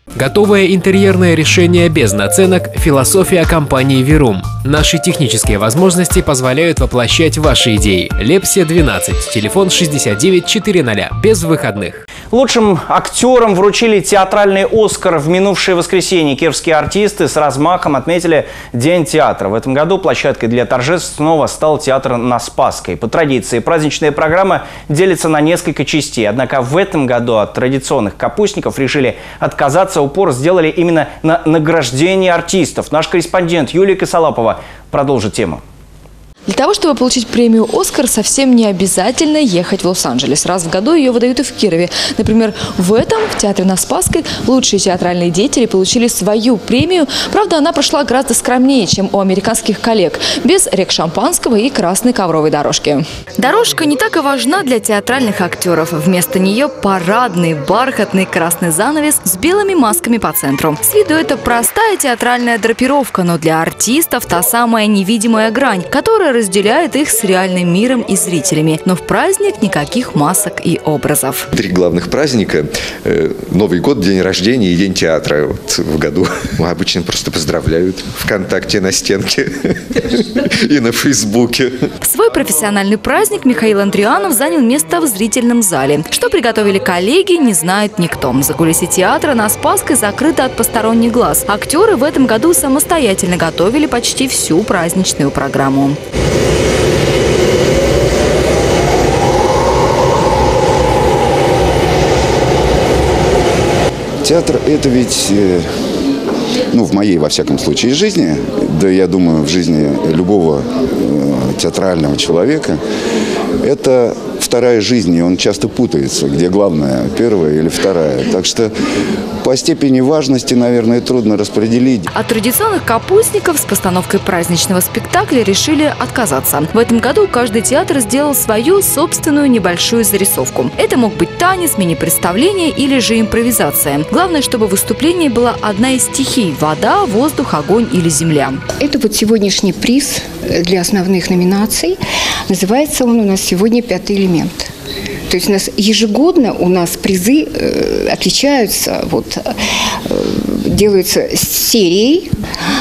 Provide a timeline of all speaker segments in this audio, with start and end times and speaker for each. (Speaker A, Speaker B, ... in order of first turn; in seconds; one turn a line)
Speaker A: 0.2-12.0
Speaker B: 12.3-35.6
Speaker C: 36.5-71.5
Speaker D: 71.5-81.8
Speaker C: 82.0-96.0
Speaker E: 104.2-105.7
Speaker E: 106.7-112.8
Speaker E: 113.6-118.7
Speaker E: 119.4-122.1
Speaker C: 122.1-138.6
Speaker F: 138.8-144.7
Speaker F: 145.3-149.5
Speaker F: 150.1-152.3